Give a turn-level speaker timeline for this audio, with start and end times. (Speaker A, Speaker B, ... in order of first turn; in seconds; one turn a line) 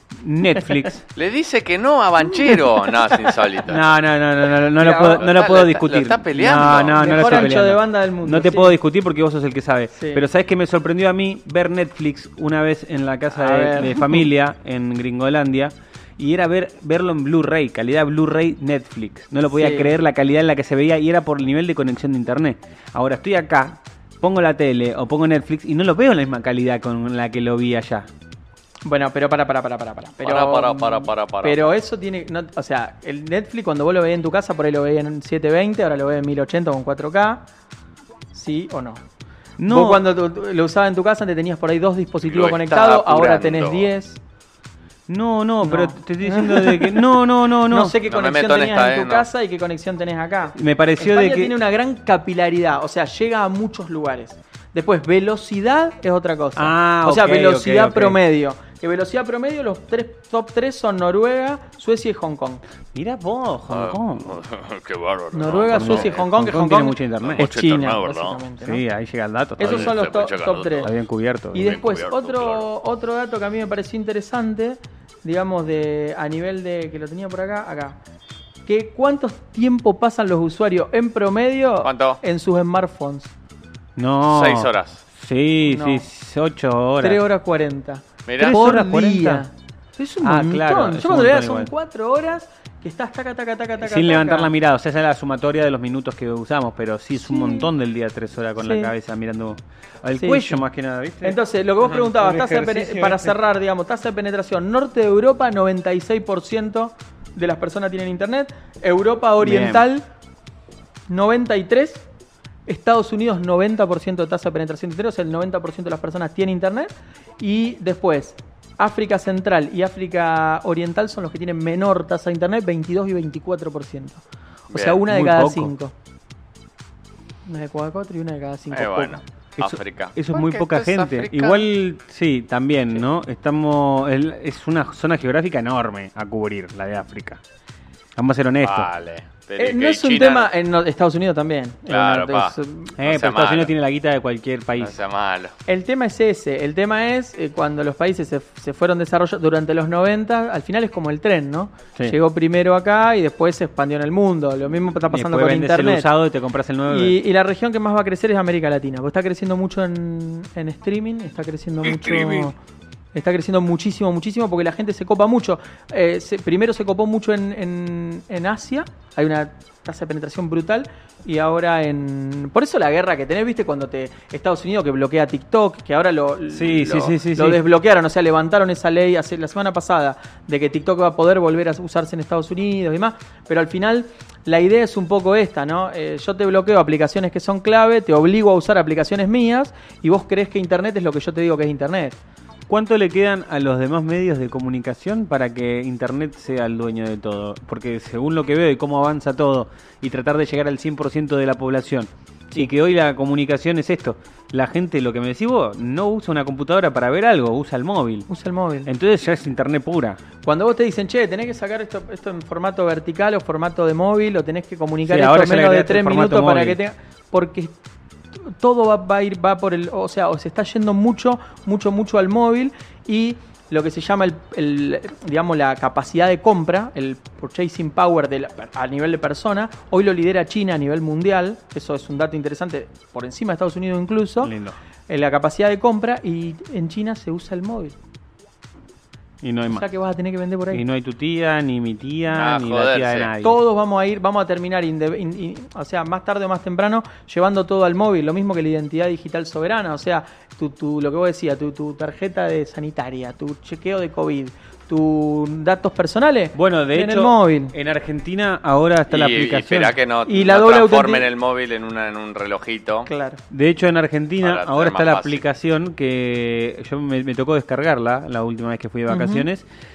Speaker A: 0.1-1.1
Speaker B: 1.1-3.8
Speaker C: 2.5-3.2
Speaker A: 3.7-28.1
Speaker C: 4.8-5.3
Speaker B: 5.0-7.5
Speaker C: 6.9-8.8
Speaker C: 9.9-10.2
Speaker C: 13.4-14.3
Speaker C: 19.5-19.9
Speaker C: 28.9-37.5
Speaker B: 30.2-31.7
Speaker C: 38.3-39.0
Speaker A: 39.6-40.1
Speaker C: 39.6-44.2
Speaker B: 42.3-43.9
Speaker A: 45.1-48.0
Speaker C: 45.6-62.6
Speaker B: 48.1-49.3
Speaker A: 50.5-51.5
Speaker A: 56.6-58.2
Speaker A: 62.9-64.4
Speaker B: 63.7-66.2
Speaker C: 65.3-68.8
Speaker A: 65.7-67.5
Speaker B: 67.2-68.4
Speaker A: 68.6-70.0
Speaker C: 69.6-70.9
Speaker B: 69.6-70.9
Speaker A: 70.8-71.8
Speaker C: 71.5-78.0
Speaker B: 71.6-72.7
Speaker C: 78.7-83.3
Speaker B: 81.8-82.2
Speaker A: 84.0-87.2
Speaker B: 84.2-85.0
Speaker C: 85.6-86.0
Speaker C: 87.0-94.5
Speaker B: 88.3-88.6
Speaker A: 88.4-89.5
Speaker A: 90.2-91.7
Speaker A: 93.8-103.4
Speaker C: 97.2-97.7
Speaker C: 98.6-98.9
Speaker C: 100.2-100.7
Speaker C: 101.2-110.0
Speaker A: 109.4-109.8
Speaker C: 111.1-112.0
Speaker C: 112.7-125.9
Speaker B: 124.7-125.0
Speaker A: 125.1-125.7
Speaker C: 127.5-129.2
Speaker B: 128.7-131.7
Speaker A: 129.6-137.4
Speaker A: 138.2-138.9
Speaker B: 138.6-140.5
Speaker C: 139.6-142.9
Speaker B: 141.9-143.7
Speaker A: 143.0-144.9
Speaker B: 144.8-145.5
Speaker C: 145.7-156.1
Speaker A: 155.1-157.2
Speaker C: 156.9-162.6
Speaker B: 161.9-162.5
Speaker C: 163.1-192.2
Speaker A: 176.5-177.6
Speaker A: 192.7-208.3
Speaker C: 208.3-208.9
Speaker A: 208.9-210.2
Speaker C: 210.4-217.7
Speaker A: 215.0-216.8
Speaker C: 218.4-234.5
Speaker A: 234.4-234.8
Speaker C: 235.1-238.0
Speaker A: 239.4-239.9
Speaker C: 239.7-240.8
Speaker A: 240.7-243.6
Speaker B: 242.3-243.3
Speaker C: 243.4-257.7
Speaker A: 256.6-260.0
Speaker B: 259.1-263.1
Speaker C: 260.3-261.3
Speaker C: 263.1-263.4
Speaker A: 263.5-269.6
Speaker B: 264.4-265.4
Speaker C: 269.1-269.4